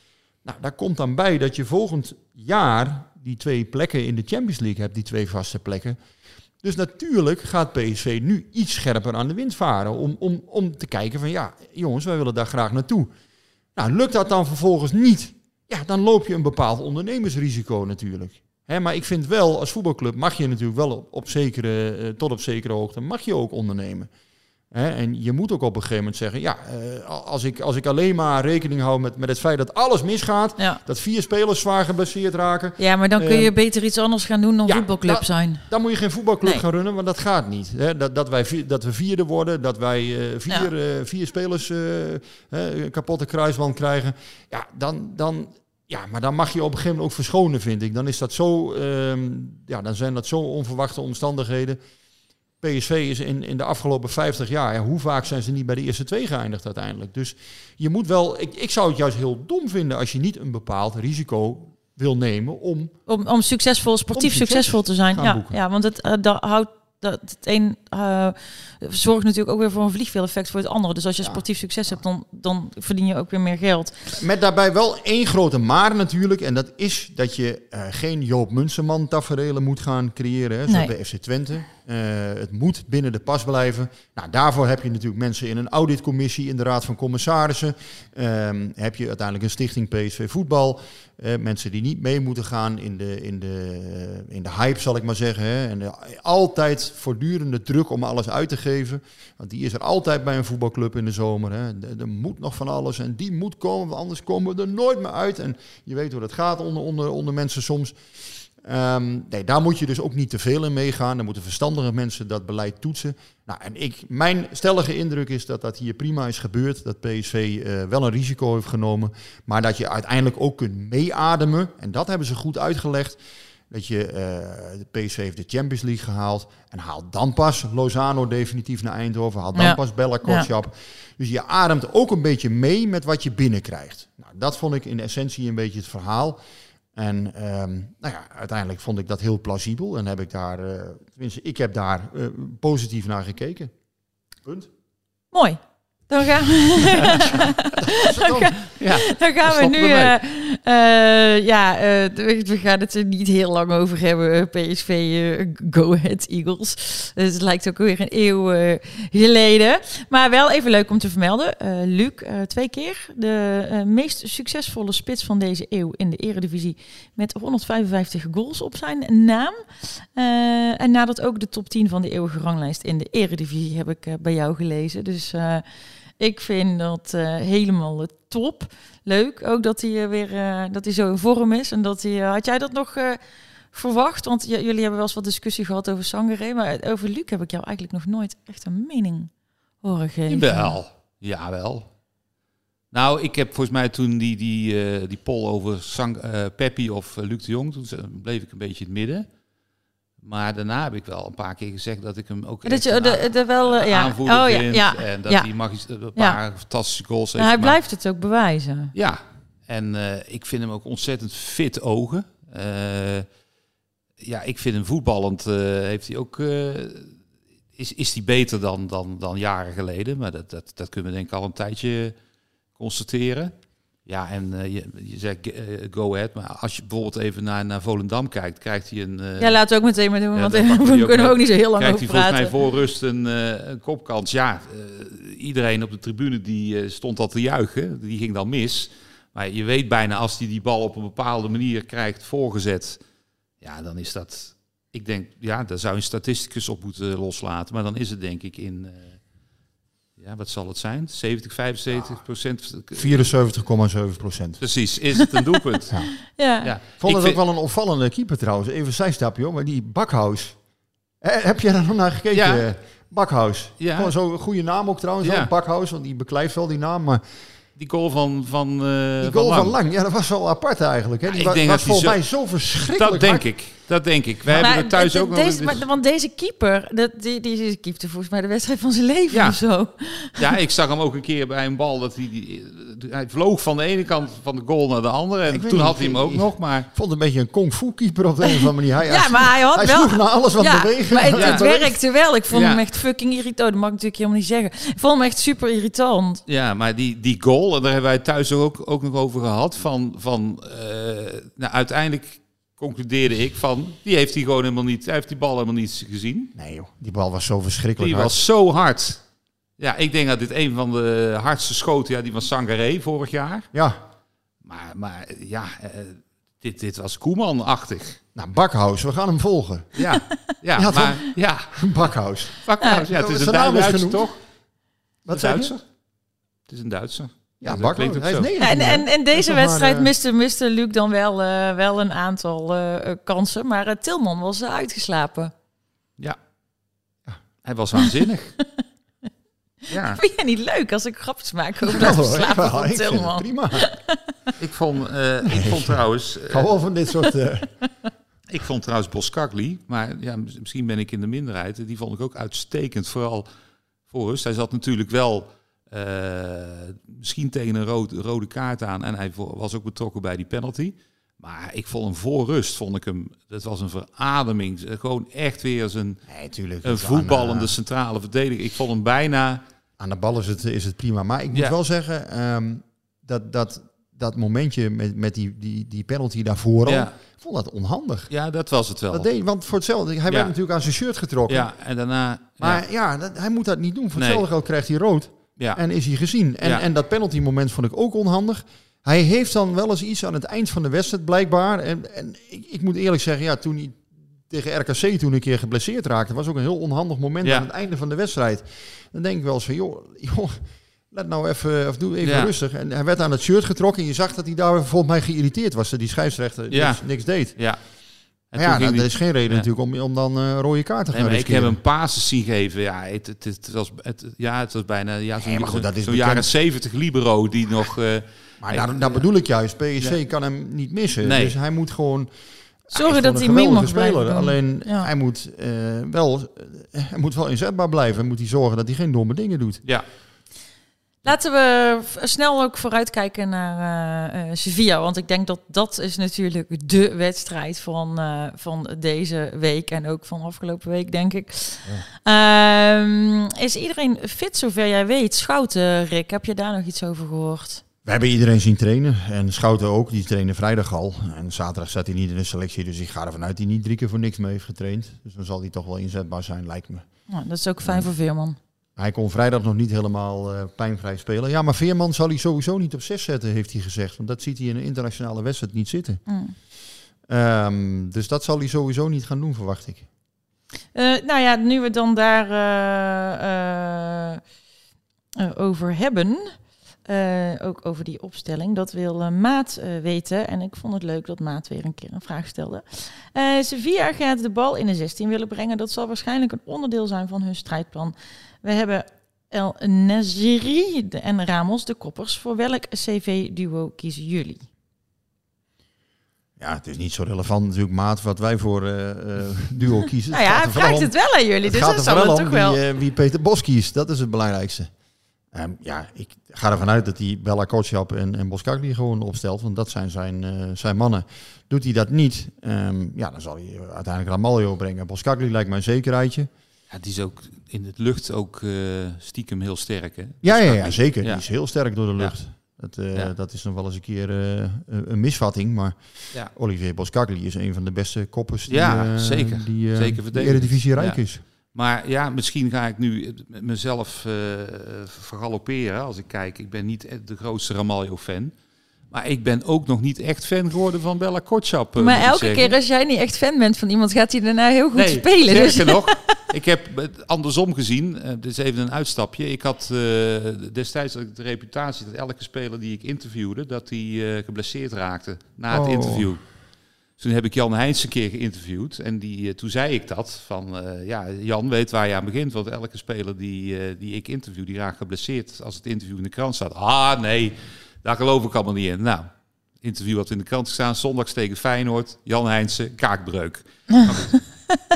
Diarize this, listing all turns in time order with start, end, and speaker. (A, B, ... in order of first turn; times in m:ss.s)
0:00.4-0:06.0 A
0:06.6-0:13.1 A
0:13.8-0:24.1 A
0:24.7-0:33.5 A
0:32.8-0:35.7 B
0:34.7-0:51.8 A
0:52.6-1:02.9 A
1:03.1-1:13.9 B
1:04.2-1:05.6 A
1:14.2-1:48.0 A
1:48.6-2:03.2 A
2:03.7-2:16.4 A
2:09.6-2:10.5 B
2:16.9-2:23.7 A
2:24.4-2:24.7 A
2:25.3-2:28.5 B
2:27.9-2:28.6 A
2:28.8-2:30.2 C
2:29.1-2:55.6 B
2:56.2-3:03.2 B
3:03.7-3:09.3 B
3:09.8-3:10.8 B
3:10.3-3:11.9 C
3:12.9-3:19.3 C
3:20.2-3:27.8 C
3:22.6-3:25.5 B
3:27.4-3:28.9 B
3:29.0-3:33.3 C
3:34.2-3:37.1 C
3:37.8-3:42.2 C
3:42.8-3:43.5 C
3:44.1-3:49.6 C
3:49.4-3:52.6 B
3:50.3-4:03.0 C
4:03.6-4:09.2 C
4:10.2-4:13.3 C
4:12.9-4:14.6 A
4:14.6-4:15.9 C
4:16.4-4:16.7 B
4:16.6-4:17.4 C
4:17.0-4:20.6 A
4:21.2-4:27.2 A
4:22.3-4:22.7 C
4:23.8-4:24.1 C
4:25.2-4:25.5 C
4:27.8-4:29.8 C
4:29.2-4:33.5 A
4:31.3-4:32.2 C
4:32.8-4:35.8 C
4:34.6-4:40.4 B
4:39.3-4:39.6 C
4:40.4-4:46.9 C
4:45.5-4:52.0 A
4:49.1-4:56.4 B
4:51.4-4:51.6 C
4:52.5-4:52.8 C
4:56.5-5:06.5 C
5:06.6-5:08.4 A
5:08.0-5:09.2 C
5:09.8-5:13.7 C
5:13.7-5:14.0 A
5:14.6-5:18.2 C
5:18.4-5:20.0 A
5:20.0-5:21.9 C
5:20.8-5:24.3 A
5:22.6-5:24.4 C
5:25.3-5:25.7 A
5:25.3-5:25.8 C
5:26.7-5:28.5 C
5:27.6-5:30.1 A
5:28.6-5:35.5 B
5:37.6-5:38.5 C
5:39.9-5:40.2 C
5:40.1-5:44.2 B
5:41.9-5:43.9 A
5:44.6-5:46.7 C
5:45.4-5:47.7 A
5:48.5-5:53.5 C
5:54.1-6:06.2 C
6:06.3-6:07.7 A
6:06.8-6:09.6 C
6:10.0-6:18.3 A
6:16.9-6:17.1 C
6:18.3-6:19.3 C
6:19.1-6:21.7 A
6:21.5-6:22.8 C
6:22.6-6:47.7 A
6:24.2-6:24.4 C
6:42.2-6:42.5 C
6:46.7-6:47.8 C
6:48.5-6:49.7 C
6:48.6-6:51.8 A
6:51.1-6:59.3 C
6:55.4-6:56.5 A
6:58.6-7:02.3 A
7:01.2-7:01.6 C
7:02.9-7:09.8 A
7:02.9-7:05.1 B
7:11.2-7:27.8 B
7:28.0-7:37.1 A
7:37.3-7:38.6 B
7:39.0-7:46.2 A
7:46.3-7:46.5 B
7:47.3-7:50.0 A
7:50.9-7:54.4 B
7:55.4-7:56.6 B
7:57.1-8:14.6 B
8:16.6-8:24.9 A
8:20.3-8:22.8 B
8:25.5-8:36.5 A
8:36.9-8:41.4 C
8:40.4-8:51.4 A
8:48.7-8:58.5 C
8:59.1-9:02.8 C
9:02.0-9:06.1 B
9:05.0-9:16.5 C
9:15.7-9:16.3 A
9:17.2-9:29.3 C
9:29.8-9:34.5 C